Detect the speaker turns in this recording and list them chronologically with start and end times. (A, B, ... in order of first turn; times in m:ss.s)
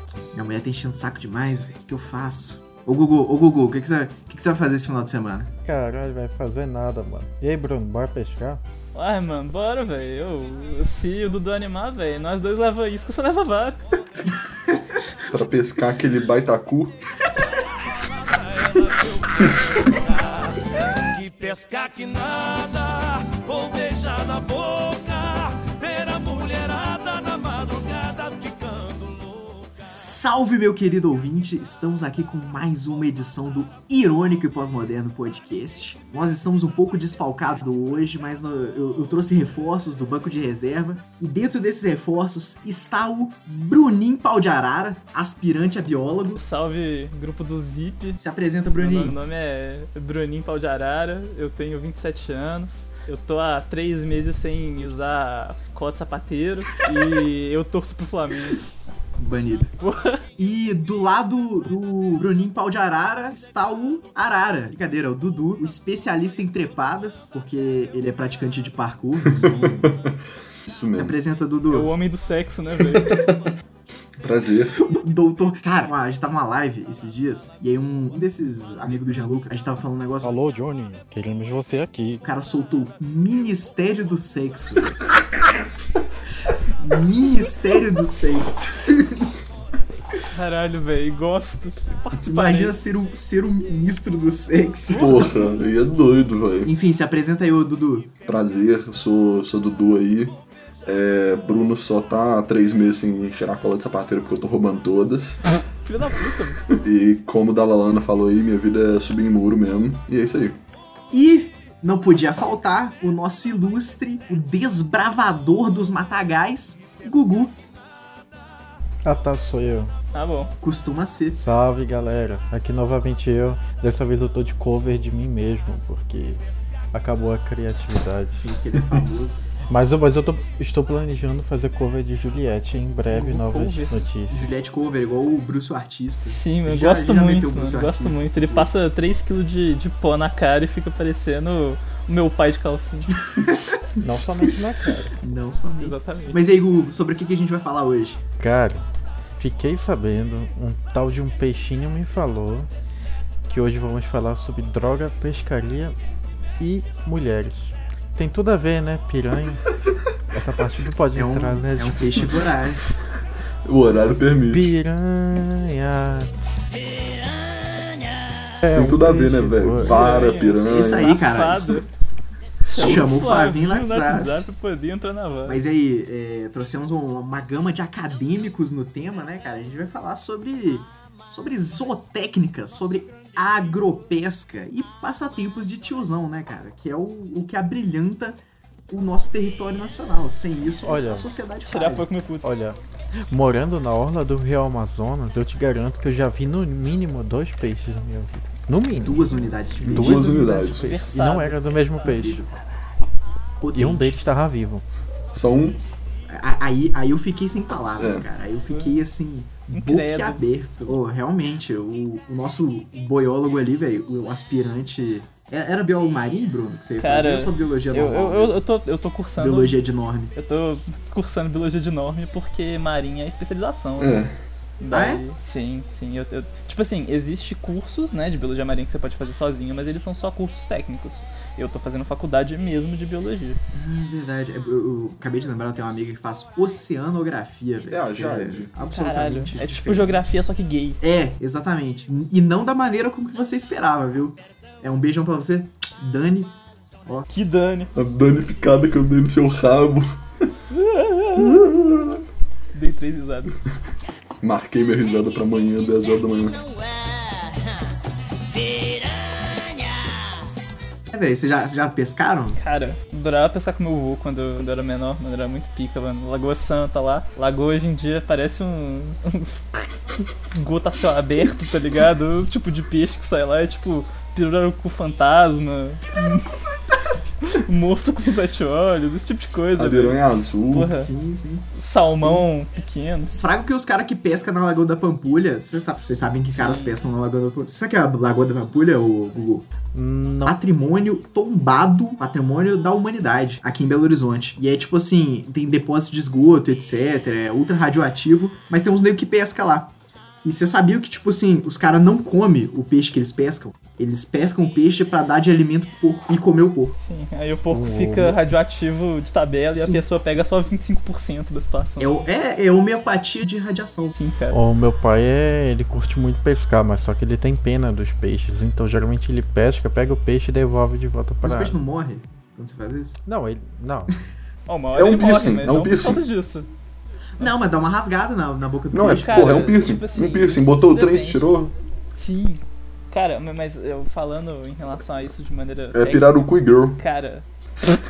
0:00.3-0:05.5 A
0:05.6-0:08.6 B
0:08.9-0:13.8 C
0:15.3-0:17.0 D
0:17.6-0:29.7 E
0:29.7-0:46.4 A
0:46.4-0:48.2 C
0:48.2-0:49.2 A
0:48.8-0:58.6 C
0:59.2-0:59.7 A
0:59.8-1:00.2 C
1:00.4-1:10.0 A
1:09.4-1:10.1 D
1:10.7-1:11.2 D
1:10.9-1:11.9 A
1:11.7-1:13.2 C
1:13.0-1:13.4 D
1:14.2-1:14.9 D
1:14.9-1:20.3 A
1:20.2-1:22.2 B
1:22.2-1:25.0 A
1:26.8-1:29.3 A
1:30.3-1:32.8 C
1:32.1-1:35.3 A
1:34.9-1:35.5 C
1:34.9-1:36.7 D
1:36.6-1:38.1 A
1:38.2-1:45.4 D
1:45.8-1:46.6 C
1:46.7-1:50.6 D
1:51.1-1:57.6 A
1:59.0-1:59.9 B
2:00.1-2:00.5 C
2:00.6-2:01.4 A
2:01.3-2:06.4 B
2:06.9-2:08.6 B
2:08.3-2:09.5 A
2:09.7-2:14.5 B
2:13.1-2:14.0 C
2:14.3-2:18.7 A
2:16.2-2:23.1 C
2:23.4-2:23.8 A
2:24.0-2:25.2 B
2:25.2-2:28.2 A
2:25.8-2:26.4 C
2:28.4-2:32.7 B
2:33.4-2:35.9 B
2:36.6-2:39.6 B
2:40.3-2:42.5 B
2:41.1-2:43.1 A
2:43.6-2:44.7 D
2:44.4-2:46.3 B
2:46.9-2:48.3 E
2:48.6-2:49.9 B
2:48.7-2:51.1 D
2:49.8-2:51.9 C
2:50.6-2:51.8 A
2:52.7-2:55.6 C
2:52.7-2:54.4 A
2:55.4-3:12.1 A
3:10.8-3:11.3 B
3:11.6-3:12.5 C
3:12.4-3:22.4 B
3:19.0-3:20.4 A
3:19.8-3:20.9 D
3:20.7-3:21.6 C
3:22.0-3:22.5 A
3:23.6-3:24.2 A
3:23.7-3:24.8 B
3:25.3-3:25.8 D
3:26.3-3:38.6 A
3:28.0-3:28.2 D
3:28.7-3:29.0 C
3:29.7-3:30.4 C
3:37.0-3:39.8 C
3:39.4-3:40.3 A
3:40.3-3:44.3 C
3:44.0-3:44.3 D
3:44.8-3:53.6 C
3:44.9-3:45.2 A
3:53.7-4:00.2 A
3:57.9-3:58.7 D
3:58.9-4:01.0 C
4:01.0-4:07.3 A
4:07.3-4:07.9 C
4:07.9-4:10.2 D
4:10.7-4:11.8 C
4:11.4-4:12.2 D
4:12.7-4:13.6 C
4:14.4-4:16.6 D
4:16.7-4:17.5 E
4:18.5-4:20.3 E
4:21.1-4:22.6 A
4:22.6-4:36.6 C
4:37.4-4:41.1 C
4:39.8-4:40.9 D
4:40.8-4:42.5 A
4:41.8-4:43.3 C
4:43.3-4:49.7 A
4:46.5-4:47.0 C
4:49.9-4:50.6 B
4:50.4-4:59.9 A
5:00.4-5:07.0 A
5:07.0-5:12.2 C
5:07.7-5:08.4 B
5:09.7-5:10.0 A
5:12.0-5:14.2 A
5:14.1-5:14.6 C
5:14.5-5:21.8 B
5:21.4-5:23.2 A
5:23.2-5:24.1 B
5:24.7-5:26.7 C
5:24.9-5:26.2 D
5:27.4-5:29.6 A
5:28.9-5:31.7 D
5:29.0-5:31.4 C
5:32.1-5:36.4 C
5:35.9-5:37.0 D
5:37.0-5:37.4 C